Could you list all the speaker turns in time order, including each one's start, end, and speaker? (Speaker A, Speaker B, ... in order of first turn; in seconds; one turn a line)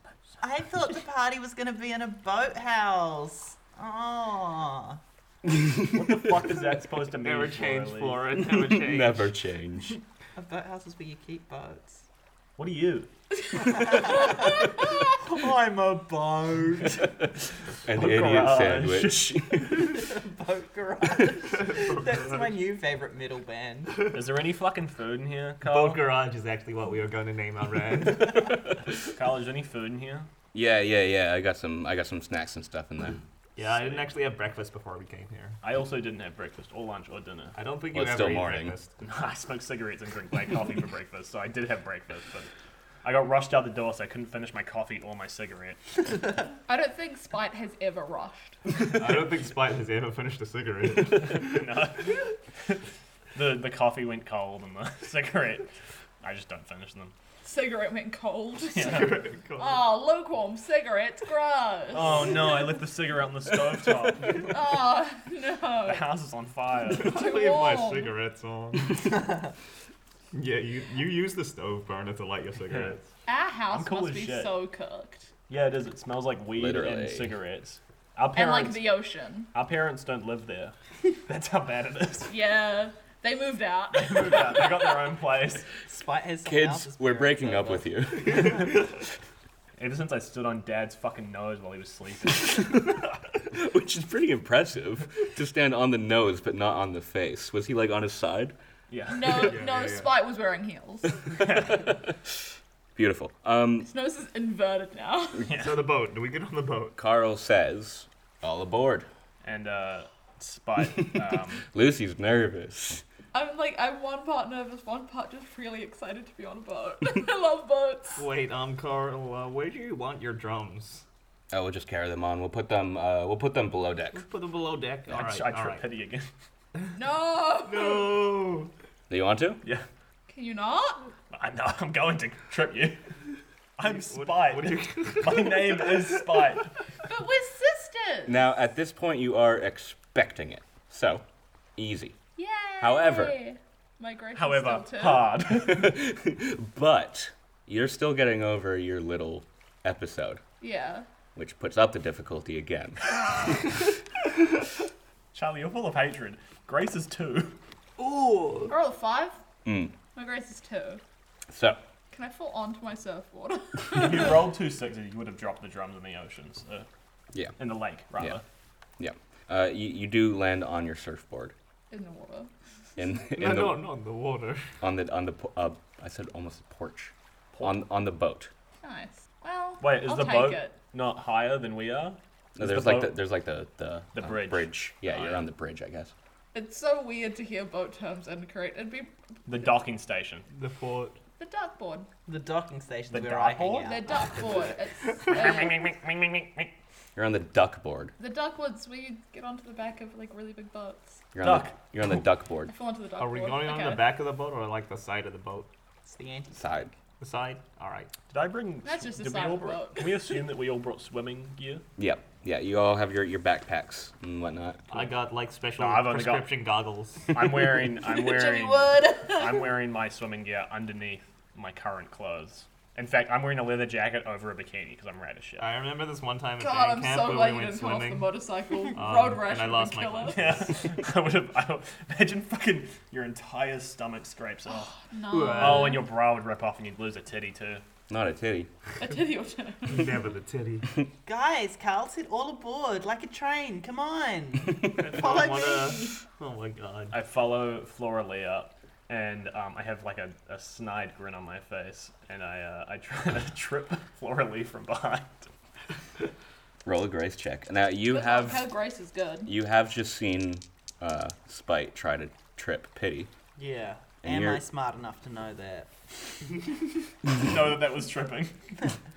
Speaker A: 0.4-5.0
Speaker B: 5.5-6.0
Speaker C: 5.9-8.4
Speaker D: 7.2-9.3
Speaker B: 8.4-10.0
Speaker A: 10.3-12.0
Speaker C: 12.6-13.1
Speaker A: 13.6-17.1
Speaker E: 13.7-14.4
Speaker B: 17.8-20.0
Speaker C: 17.9-19.5
Speaker A: 19.9-24.1
Speaker D: 21.7-22.4
Speaker C: 24.1-26.0
Speaker D: 25.6-28.5
Speaker C: 29.0-30.3
Speaker B: 30.5-33.2
Speaker D: 33.6-35.6
Speaker C: 33.6-34.1
Speaker C: 35.6-37.5
Speaker D: 37.5-38.9
Speaker B: 37.9-38.7
Speaker C: 39.0-42.5
Speaker C: 43.0-45.8
Speaker E: 46.7-48.5
Speaker D: 48.8-51.7
Speaker C: 51.3-52.7
Speaker C: 53.3-55.7
Speaker C: 56.2-57.1
Speaker E: 57.4-62.3
Speaker C: 58.7-59.2
Speaker D: 58.8-59.9
Speaker C: 61.9-64.6
Speaker E: 64.4-66.1
Speaker C: 65.8-67.1
Speaker D: 66.8-69.4
Speaker E: 67.0-68.2
Speaker D: 70.3-73.0
Speaker C: 72.7-73.0
Speaker E: 73.3-75.3
Speaker C: 73.7-74.5
Speaker C: 75.5-78.9
Speaker B: 76.5-77.3
Speaker E: 78.3-79.5
Speaker C: 79.5-82.3
Speaker E: 82.3-85.0
Speaker C: 83.9-85.7
Speaker A: 85.7-88.0
Speaker B: 86.4-88.7
Speaker C: 89.8-92.7
Speaker B: 93.5-98.5
Speaker C: 98.9-99.5
Speaker E: 99.1-101.3
Speaker D: 99.2-100.1
Speaker C: 101.4-101.7
Speaker B: 101.7-102.3
Speaker B: 103.0-103.9
Speaker E: 103.9-105.5
Speaker C: 105.4-105.8
Speaker D: 105.5-107.0
Speaker B: 107.0-109.1
Speaker C: 109.4-111.6
Speaker B: 111.7-113.0
Speaker E: 113.3-118.2
Speaker D: 118.2-121.0
Speaker B: 121.5-124.2
Speaker D: 124.1-125.8
Speaker C: 125.1-126.3
Speaker E: 127.0-128.2
Speaker D: 127.6-128.7
Speaker B: 129.1-129.6
Speaker E: 130.3-131.1
Speaker C: 131.3-133.0
Speaker C: 133.8-136.7
Speaker D: 133.8-136.2
Speaker E: 137.1-138.4
Speaker B: 138.2-141.2
Speaker B: 141.8-142.2
Speaker E: 142.4-145.3
Speaker B: 142.8-143.4
Speaker C: 144.3-145.9
Speaker B: 145.5-150.4
Speaker E: 150.6-151.1
Speaker B: 151.3-153.1
Speaker C: 155.3-157.6
Speaker D: 158.0-158.7
Speaker E: 158.7-159.4
Speaker B: 159.6-159.9
Speaker E: 160.1-161.0
Speaker B: 161.5-161.8
Speaker E: 162.1-164.4
Speaker C: 163.9-166.9
Speaker C: 167.6-168.4
Speaker B: 169.0-171.5
Speaker E: 171.9-172.5
Speaker B: 173.0-173.9
Speaker D: 173.3-174.7
Speaker B: 174.8-178.5
Speaker C: 177.5-177.8
Speaker E: 178.8-180.7
Speaker C: 179.8-183.2
Speaker B: 182.6-186.1
Speaker C: 184.1-185.4
Speaker E: 186.5-189.1
Speaker C: 189.5-190.4
Speaker D: 190.5-191.2
Speaker E: 191.4-192.1
Speaker A: 192.2-194.2
Speaker C: 193.1-194.0
Speaker E: 193.8-195.8
Speaker C: 195.3-196.7
Speaker B: 197.2-198.1
Speaker E: 198.2-201.2
Speaker B: 201.3-202.7
Speaker C: 201.4-201.8
Speaker E: 202.7-204.1
Speaker D: 203.2-205.7
Speaker A: 206.0-206.6
Speaker B: 206.5-206.9
Speaker D: 207.2-208.1
Speaker C: 208.3-211.8
Speaker E: 208.8-210.2
Speaker B: 212.0-215.1
Speaker D: 214.9-217.7
Speaker C: 215.8-216.5
Speaker C: 217.3-225.7
Speaker E: 218.0-219.7
Speaker D: 225.6-228.3
Speaker E: 226.6-230.6
Speaker D: 228.9-230.7
Speaker C: 230.2-234.9
Speaker E: 234.7-236.1
Speaker D: 235.3-236.0
Speaker C: 235.5-237.8
Speaker B: 238.1-238.7
Speaker E: 239.0-240.2
Speaker D: 239.8-240.9
Speaker A: 241.2-246.2
Speaker D: 244.8-247.2
Speaker C: 247.1-255.5
Speaker B: 256.8-258.7
Speaker E: 258.1-259.5
Speaker B: 259.4-263.3
Speaker A: 263.6-265.9
Speaker B: 264.2-264.6
Speaker C: 267.2-268.5